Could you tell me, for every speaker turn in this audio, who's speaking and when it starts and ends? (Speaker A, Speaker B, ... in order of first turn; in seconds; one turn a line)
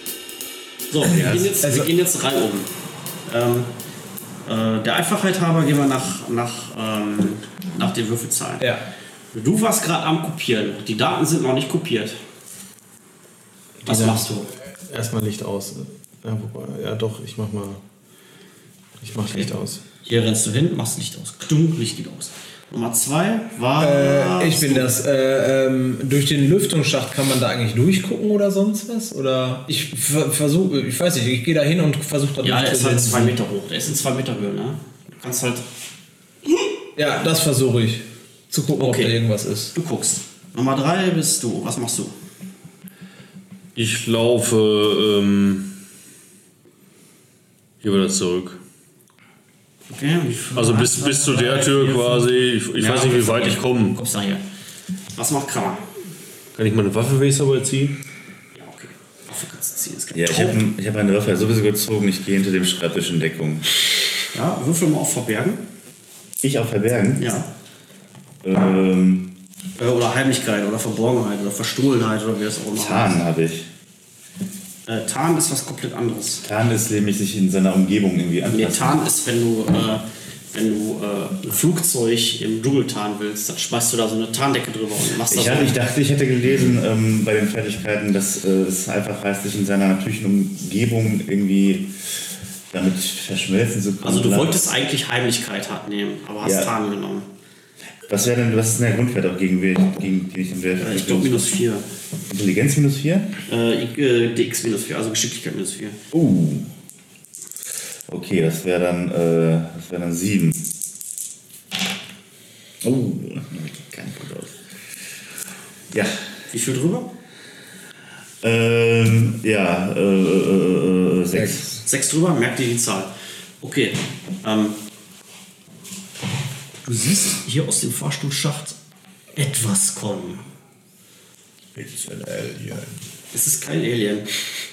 Speaker A: 0.9-2.7
Speaker B: 1.0-1.6
Speaker C: 1.6-1.9
Speaker A: 3.3-3.7
Speaker A: 4.5-8.7
Speaker C: 8.6-8.9
Speaker A: 9.3-12.2
Speaker D: 13.8-14.3
Speaker A: 13.9-14.5
Speaker D: 14.9-17.8
Speaker D: 19.0-19.8
Speaker A: 20.1-24.9
Speaker C: 23.8-33.4
Speaker A: 32.4-35.7
Speaker C: 37.0-39.8
Speaker A: 38.8-39.2
Speaker A: 39.8-42.1
Speaker E: 43.8-45.7
Speaker E: 47.8-48.6
Speaker A: 49.9-54.4
Speaker E: 50.5-54.0
Speaker A: 55.1-55.8
Speaker E: 56.5-58.0
Speaker A: 58.5-60.6
Speaker B: 60.1-63.7
Speaker A: 64.3-65.6
Speaker B: 66.4-67.4
Speaker A: 67.2-67.5
Speaker B: 68.4-69.3
Speaker A: 69.8-73.2
Speaker B: 72.8-73.7
Speaker A: 74.9-76.4
Speaker B: 76.4-79.0
Speaker A: 78.5-85.8
Speaker B: 85.3-91.9
Speaker B: 92.7-94.6
Speaker A: 94.0-97.3
Speaker B: 96.4-96.7
Speaker B: 98.1-101.5
Speaker A: 100.8-101.8
Speaker B: 102.3-103.3
Speaker A: 103.5-106.0
Speaker B: 106.1-106.7
Speaker B: 108.1-110.7
Speaker B: 112.8-114.6
Speaker B: 115.9-116.2
Speaker A: 116.5-117.1
Speaker B: 118.4-121.7
Speaker C: 121.3-121.7
Speaker A: 121.8-124.8
Speaker A: 126.8-128.8
Speaker A: 129.4-130.5
Speaker B: 131.8-132.4
Speaker C: 132.4-132.8
Speaker A: 133.3-134.3